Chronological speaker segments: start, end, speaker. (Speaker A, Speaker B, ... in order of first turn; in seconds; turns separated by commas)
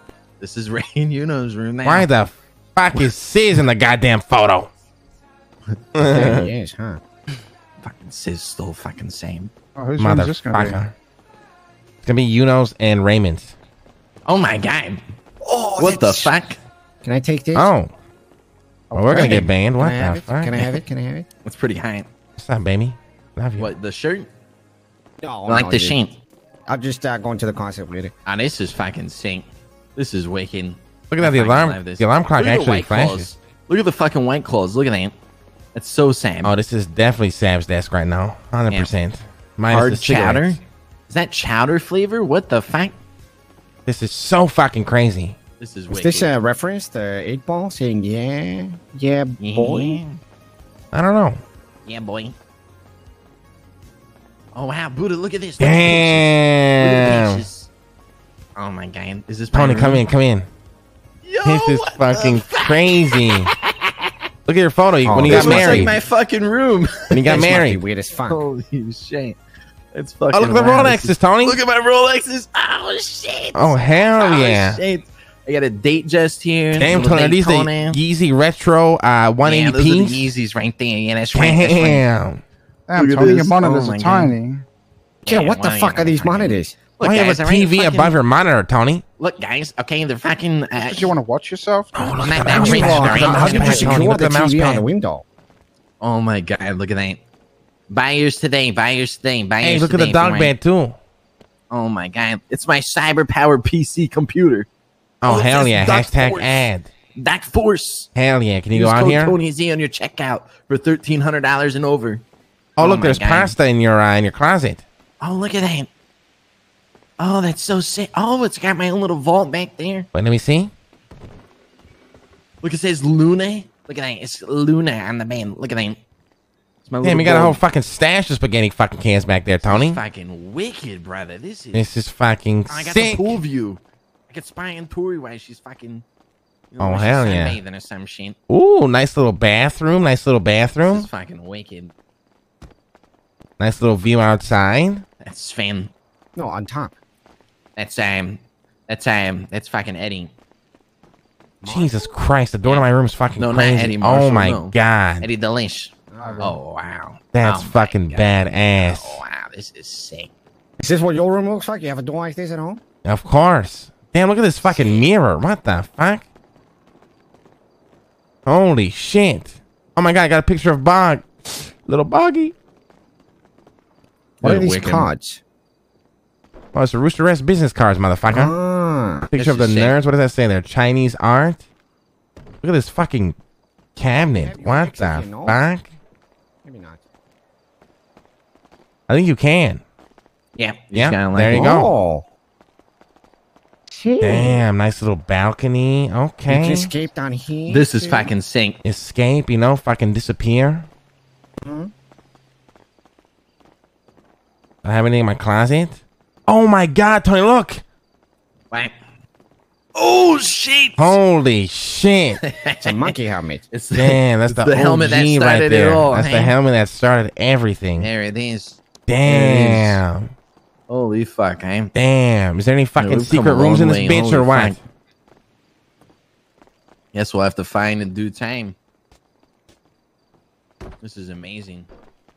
Speaker A: 0.4-2.1, Speaker B: 1.8-4.7, Speaker B: 5.9-6.5, Speaker C: 6.0-7.0, Speaker A: 7.8-9.5, Speaker D: 9.8-10.9, Speaker B: 10.0-10.9, Speaker B: 12.0-13.5, Speaker A: 14.2-15.0, Speaker C: 15.4-16.3, Speaker A: 15.8-16.6, Speaker C: 17.0-17.7, Speaker B: 17.5-17.9, Speaker D: 18.9-19.4, Speaker B: 18.9-20.6, Speaker C: 19.0-21.3, Speaker A: 21.4-22.1, Speaker B: 22.4-23.7, Speaker A: 23.6-24.3, Speaker C: 25.2-26.0, Speaker A: 25.5-26.1, Speaker C: 26.7-28.1, Speaker A: 28.2-35.1, Speaker B: 31.1-33.3, Speaker A: 35.7-36.5, Speaker B: 36.4-40.6, Speaker A: 39.7-43.0, Speaker B: 43.9-45.4, Speaker A: 45.6-46.3, Speaker C: 45.9-50.0, Speaker A: 49.4-50.2, Speaker B: 50.9-51.4, Speaker A: 51.9-52.3, Speaker A: 54.5-57.7, Speaker B: 55.6-57.4, Speaker A: 58.5-60.1, Speaker B: 59.5-60.5, Speaker A: 61.2-64.1, Speaker B: 61.4-63.5, Speaker B: 64.5-66.0, Speaker C: 65.0-66.0, Speaker A: 65.2-69.4, Speaker B: 67.1-67.8, Speaker C: 67.3-68.4, Speaker A: 69.9-78.0, Speaker B: 70.3-71.6, Speaker B: 73.5-74.8, Speaker B: 76.7-80.3, Speaker A: 79.4-82.0, Speaker B: 81.3-82.4, Speaker D: 82.9-84.7, Speaker A: 83.0-84.3, Speaker A: 85.2-88.2, Speaker C: 85.2-86.8, Speaker B: 87.0-89.0, Speaker A: 89.2-91.1, Speaker D: 90.8-93.4, Speaker B: 91.9-94.8, Speaker A: 92.2-94.2, Speaker C: 92.5-95.2, Speaker A: 96.0-97.2, Speaker A: 97.9-100.5, Speaker B: 99.6-101.0, Speaker A: 101.7-104.7, Speaker B: 105.2-106.9, Speaker A: 105.2-108.1, Speaker B: 108.2-109.4, Speaker A: 108.7-112.2, Speaker B: 112.8-114.8, Speaker A: 112.8-113.5, Speaker A: 115.2-115.9, Speaker A: 117.2-120.1, Speaker B: 120.1-120.7, Speaker A: 122.6-126.0, Speaker A: 126.8-127.6, Speaker B: 127.0-130.0, Speaker A: 129.6-131.9, Speaker B: 131.7-133.4, Speaker A: 132.7-136.0, Speaker A: 136.7-138.4, Speaker B: 136.8-137.6, Speaker B: 138.5-141.1, Speaker A: 140.8-141.9, Speaker B: 143.6-145.0, Speaker A: 145.2-145.9, Speaker C: 146.3-147.0, Speaker A: 147.8-150.3, Speaker C: 151.6-152.1, Speaker B: 151.6-155.3, Speaker A: 153.4-160.3, Speaker C: 156.1-156.6, Speaker D: 156.2-156.6, Speaker B: 157.3-159.2, Speaker C: 160.8-162.8, Speaker B: 163.0-166.2, Speaker B: 168.4-172.5, Speaker A: 174.4-175.1, Speaker C: 174.4-175.4, Speaker B: 176.7-178.5, Speaker C: 178.3-179.3, Speaker B: 179.3-181.6, Speaker A: 179.3-179.9, Speaker B: 182.6-183.4, Speaker B: 183.9-185.8, Speaker C: 184.3-185.6, Speaker C: 186.6-187.0, Speaker B: 189.1-189.8, Speaker A: 190.6-191.6, Speaker B: 190.9-191.9, Speaker C: 191.5-192.3, Speaker C: 193.9-194.6, Speaker B: 194.2-196.9, Speaker C: 196.5-198.3, Speaker A: 197.7-198.8, Speaker B: 198.8-200.9, Speaker C: 201.6-201.9, Speaker B: 204.8-207.8, Speaker A: 209.9-211.2, Speaker B: 211.0-212.4, Speaker A: 212.4-213.2, Speaker C: 212.8-213.6, Speaker A: 213.7-216.5, Speaker B: 213.9-218.1, Speaker A: 218.0-220.0, Speaker B: 219.1-220.3, Speaker A: 220.9-221.9, Speaker B: 221.9-224.8, Speaker A: 223.0-224.8, Speaker A: 227.1-228.8, Speaker A: 231.0-231.9